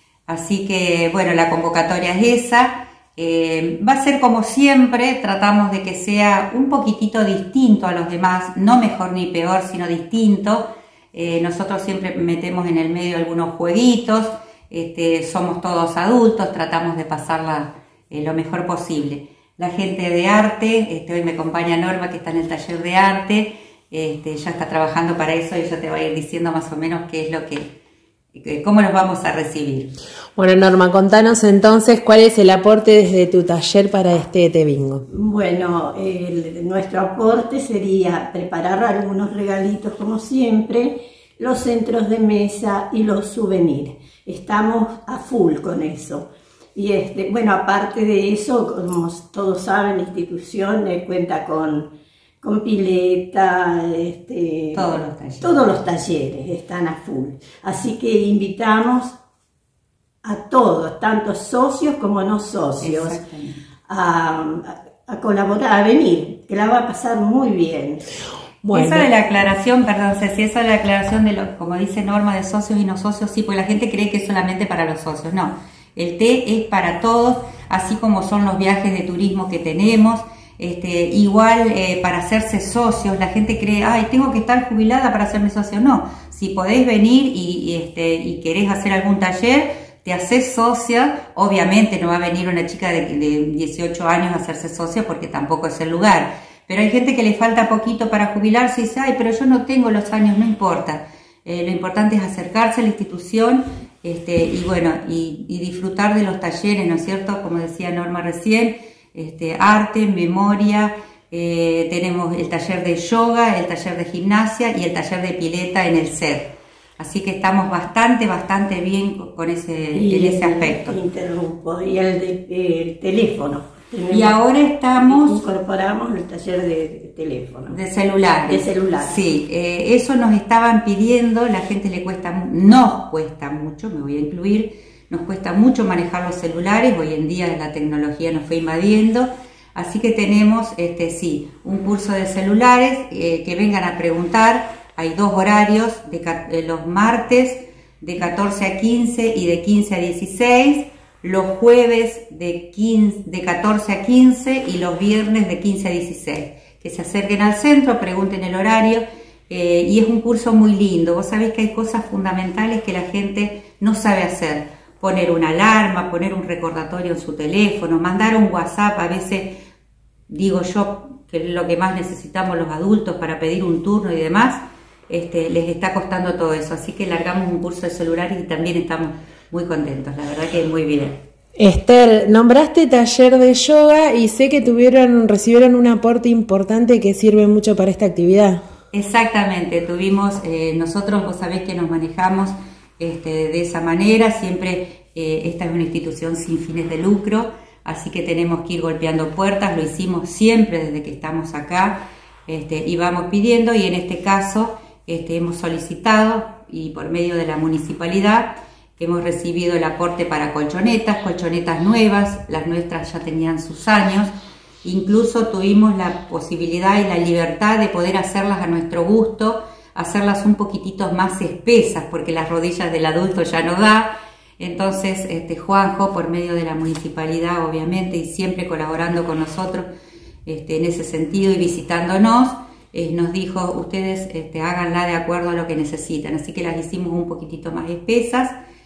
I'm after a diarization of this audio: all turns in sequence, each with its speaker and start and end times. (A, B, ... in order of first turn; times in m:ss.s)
0:00.3-0:27.7 A
0:28.3-0:29.9 A
0:30.4-0:35.0 B
0:35.1-0:51.9 C
0:52.4-0:59.2 C
0:54.7-0:55.8 A
1:00.2-1:03.2 C
1:02.8-1:03.6 A
1:03.9-1:08.0 C
1:08.6-1:09.1 B
1:08.7-2:01.0 A
2:00.0-2:04.4 C
2:04.1-2:05.4 A
2:05.0-2:07.8 C
2:07.7-2:49.6 A
2:08.5-2:09.2 C
2:50.3-3:01.2 A
3:01.6-3:08.6 B
3:08.9-3:34.3 A
3:34.8-3:49.9 A
3:50.5-3:58.6 A